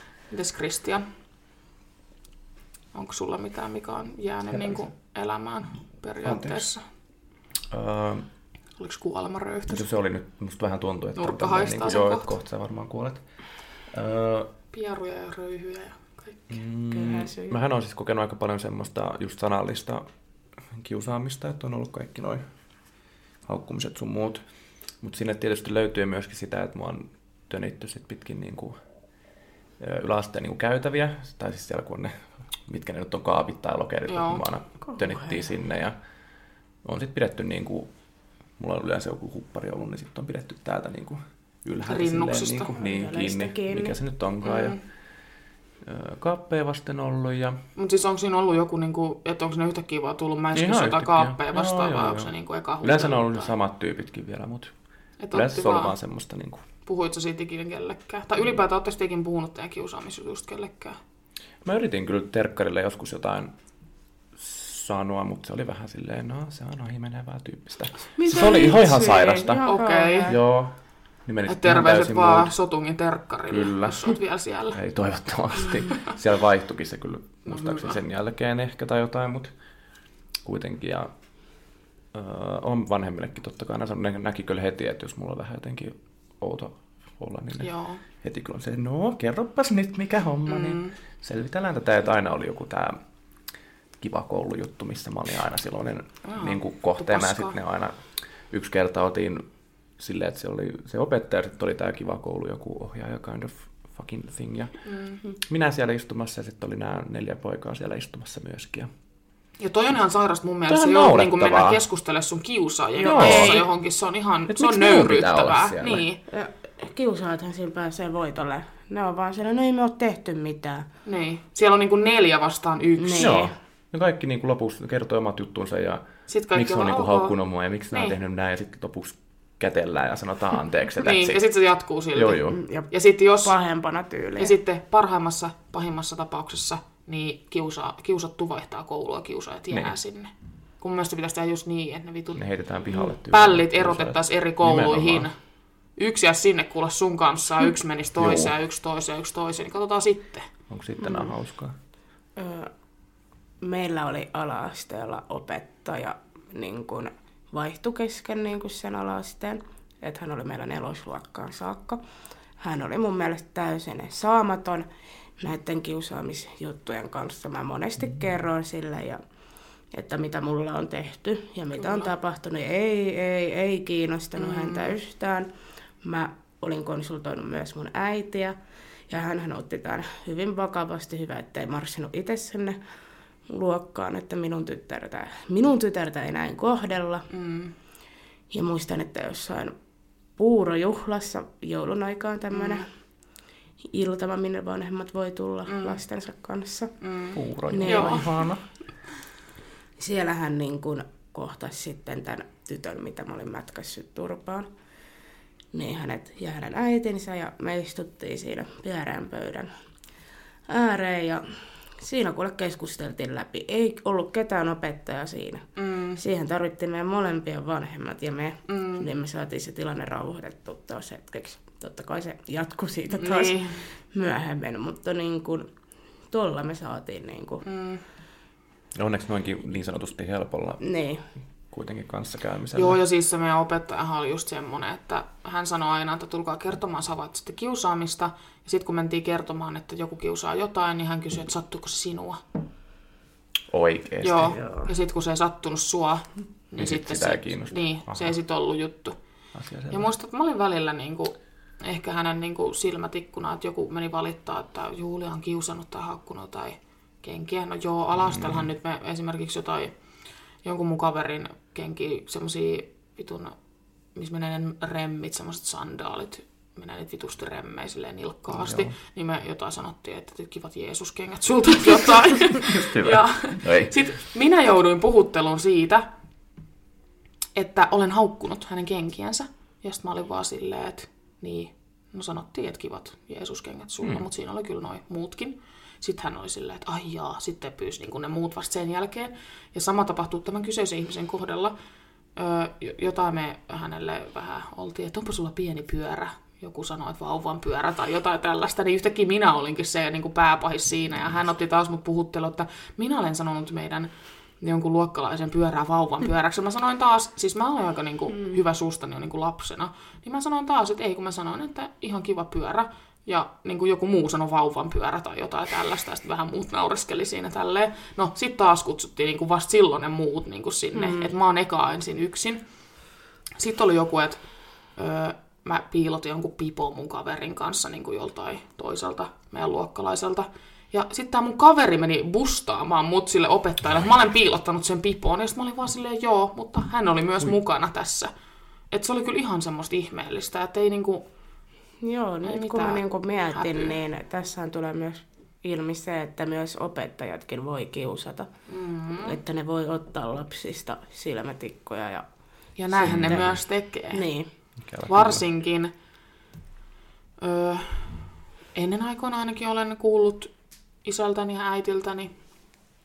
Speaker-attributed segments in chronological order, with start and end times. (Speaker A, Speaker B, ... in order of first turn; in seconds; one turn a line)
Speaker A: 0.3-1.1
Speaker A: 2.9-6.8
Speaker B: 4.5-4.8
Speaker B: 6.2-6.7
Speaker B: 7.7-8.3
Speaker A: 8.8-9.8
Speaker B: 9.7-13.2
Speaker A: 11.2-12.3
Speaker B: 13.9-14.5
Speaker A: 14.7-16.5
Speaker B: 16.5-20.1
Speaker C: 16.9-17.6
Speaker B: 20.8-22.4
Speaker B: 23.5-24.4
Speaker B: 25.0-28.8
Speaker B: 29.8-32.2
Speaker B: 32.7-36.0
Speaker A: 34.1-34.4
Speaker C: 34.9-35.5
Speaker B: 36.8-37.9
Speaker B: 38.6-44.8
Speaker A: 41.9-42.7
Speaker C: 42.8-44.0
Speaker A: 44.4-44.8
Speaker B: 45.8-47.6
Speaker A: 47.8-53.5
Speaker B: 50.5-52.3
Speaker B: 52.8-54.7
Speaker A: 55.2-56.0
Speaker B: 55.3-56.6
Speaker A: 56.9-61.0
Speaker B: 61.6-63.5
Speaker B: 64.4-69.7
Speaker C: 68.2-70.3
Speaker A: 69.6-70.3
Speaker B: 70.2-70.7
Speaker B: 71.2-72.5
Speaker A: 71.5-74.8
Speaker B: 73.5-74.1
Speaker B: 74.7-79.5
Speaker A: 77.5-78.0
Speaker B: 80.5-81.1
Speaker B: 82.1-93.0
Speaker A: 87.6-88.0
Speaker A: 90.5-90.9
Speaker B: 94.0-99.5
Speaker A: 96.2-97.6
Speaker B: 100.0-104.8
Speaker A: 104.9-105.2
Speaker B: 105.4-108.9
Speaker A: 109.6-116.2
Speaker B: 110.7-111.8
Speaker C: 113.0-113.7
Speaker B: 113.0-113.7
Speaker B: 114.5-116.0
Speaker C: 116.3-120.9
Speaker A: 121.1-123.5
Speaker C: 123.0-123.5
Speaker B: 123.2-131.4
Speaker A: 126.3-127.3
Speaker A: 131.0-133.6
Speaker B: 132.2-132.6
Speaker C: 132.5-132.9
Speaker C: 133.4-134.6
Speaker A: 134.4-142.4
Speaker B: 139.7-140.0
Speaker B: 142.3-145.3
Speaker A: 143.3-145.3
Speaker A: 146.0-150.5
Speaker B: 148.2-148.5
Speaker B: 150.7-151.8
Speaker C: 151.0-151.3
Speaker C: 152.4-152.7
Speaker C: 153.6-162.0
Speaker C: 162.6-164.9
Speaker C: 165.4-169.2
Speaker C: 169.9-175.5
Speaker A: 171.8-172.1
Speaker A: 174.4-174.9
Speaker C: 176.0-178.6
Speaker C: 179.1-182.8
Speaker C: 183.5-187.3
Speaker A: 187.3-187.7
Speaker C: 188.5-189.7
Speaker C: 190.4-192.9
Speaker A: 192.6-192.8
Speaker C: 193.9-196.9
Speaker A: 195.7-196.0
Speaker A: 197.0-198.3
Speaker B: 197.3-198.6
Speaker C: 197.7-198.3
Speaker C: 200.0-204.7
Speaker C: 205.7-209.7
Speaker C: 210.7-225.7
Speaker A: 215.8-216.2
Speaker A: 218.7-219.1
Speaker A: 223.1-223.8
Speaker C: 226.3-227.6
Speaker A: 227.6-228.0
Speaker B: 229.0-230.8
Speaker C: 230.8-231.2
Speaker B: 231.7-233.0
Speaker A: 232.8-242.4
Speaker B: 243.7-244.6
Speaker A: 244.2-249.2
Speaker C: 244.4-244.9
Speaker B: 246.8-248.3
Speaker B: 249.6-250.1
Speaker A: 249.9-259.9
Speaker B: 258.2-258.7
Speaker A: 260.6-263.6
Speaker A: 264.1-276.1
Speaker B: 268.5-268.9
Speaker B: 272.6-273.9
Speaker A: 277.6-291.7
Speaker A: 292.4-322.6
Speaker C: 320.9-321.3
Speaker A: 323.6-324.4
Speaker A: 324.9-338.3
Speaker A: 338.9-341.3
Speaker C: 342.0-348.5
Speaker A: 342.4-344.0
Speaker A: 348.7-349.4
Speaker C: 349.2-352.3
Speaker A: 352.8-354.3
Speaker C: 352.9-353.6
Speaker B: 353.0-353.6
Speaker C: 354.1-354.5
Speaker B: 354.8-355.4
Speaker A: 355.1-355.9
Speaker A: 357.4-360.5
Speaker A: 361.0-362.3